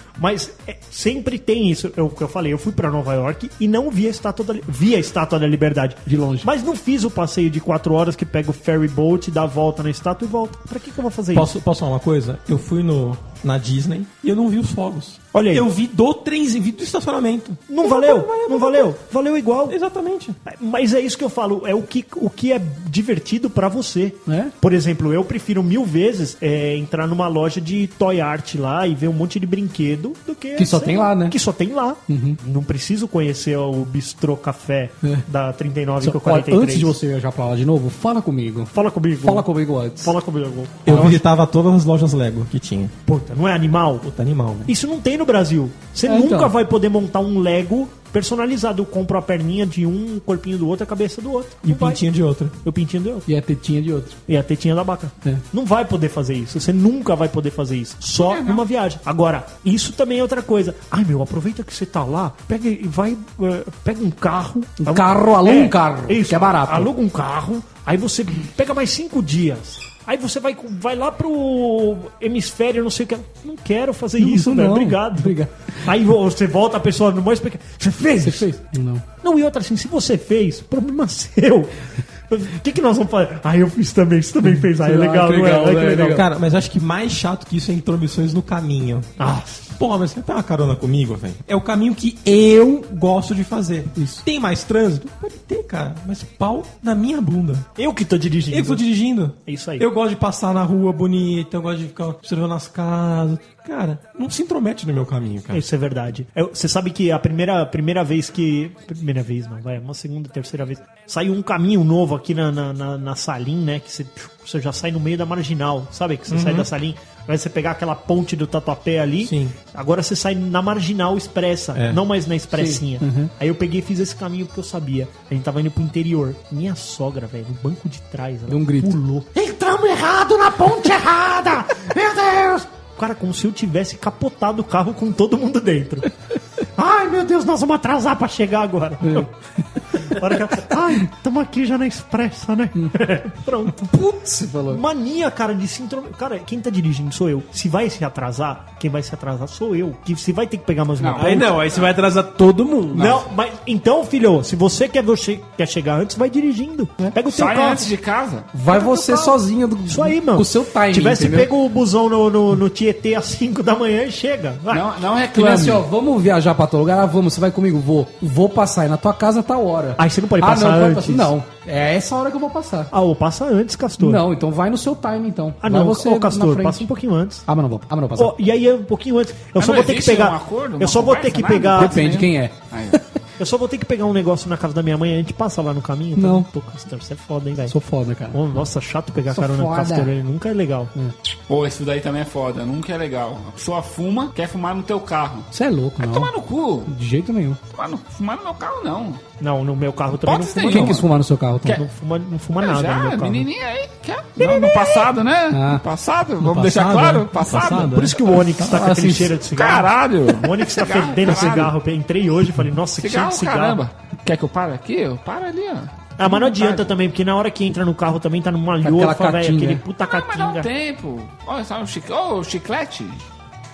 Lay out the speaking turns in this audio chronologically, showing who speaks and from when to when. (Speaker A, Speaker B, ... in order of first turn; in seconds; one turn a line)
Speaker A: 0.2-11.5
Speaker B: 6.1-6.5
Speaker C: 11.3-18.9
Speaker A: 15.3-15.7
Speaker A: 17.7-19.8
Speaker C: 19.7-20.4
Speaker A: 20.4-37.0
Speaker B: 24.3-24.5
Speaker B: 30.6-31.4
Speaker B: 32.1-32.4
Speaker B: 36.0-40.1
Speaker A: 38.7-41.1
Speaker C: 40.8-42.9
Speaker B: 40.9-41.2
Speaker A: 43.0-44.0
Speaker C: 44.0-44.7
Speaker A: 44.6-52.0
Speaker B: 46.1-46.5
Speaker C: 51.6-52.5
Speaker A: 52.6-53.3
Speaker B: 53.3-54.2
Speaker A: 54.3-78.5
Speaker D: 58.2-58.6
Speaker B: 64.8-66.9
Speaker B: 74.2-75.5
Speaker B: 78.2-79.0
Speaker A: 79.2-81.7
Speaker A: 82.3-86.2
Speaker B: 84.8-86.2
Speaker C: 86.1-89.1
Speaker A: 89.2-89.6
Speaker C: 89.7-97.7
Speaker B: 94.0-94.2
Speaker A: 97.8-98.8
Speaker C: 98.5-105.7
Speaker A: 99.5-99.9
Speaker A: 105.5-136.1
Speaker C: 116.3-116.7
Speaker C: 119.2-119.5
Speaker C: 121.7-122.0
Speaker B: 122.5-123.3
Speaker B: 128.5-129.0
Speaker A: 136.8-139.3
Speaker A: 139.9-143.9
Speaker B: 143.8-144.8
Speaker A: 144.7-151.7
Speaker D: 151.0-151.9
Speaker E: 151.2-153.2
Speaker A: 152.9-157.9
Speaker D: 157.3-158.5
Speaker B: 158.5-161.5
Speaker A: 158.7-164.8
Speaker D: 164.7-165.8
Speaker B: 165.3-172.9
Speaker A: 170.0-171.3
Speaker A: 172.9-174.2
Speaker B: 174.0-176.8
Speaker A: 175.6-177.4
Speaker B: 177.4-178.3
Speaker A: 178.2-182.1
Speaker D: 179.6-183.0
Speaker B: 181.7-183.0
Speaker A: 183.4-187.7
Speaker B: 186.2-186.5
Speaker B: 187.7-188.4
Speaker A: 188.3-190.9
Speaker B: 189.3-190.1
Speaker D: 191.5-195.5
Speaker B: 195.5-196.3
Speaker D: 196.0-196.9
Speaker B: 196.9-197.6
Speaker D: 197.7-199.2
Speaker A: 199.4-201.1
Speaker D: 200.2-201.0
Speaker B: 200.7-201.8
Speaker A: 201.6-203.5
Speaker D: 202.6-207.9
Speaker A: 204.4-204.8
Speaker B: 205.5-205.8
Speaker C: 206.4-208.1
Speaker A: 207.8-213.8
Speaker B: 208.6-209.3
Speaker D: 209.5-211.7
Speaker D: 213.0-216.9
Speaker A: 216.2-220.7
Speaker B: 218.8-219.8
Speaker D: 220.1-223.2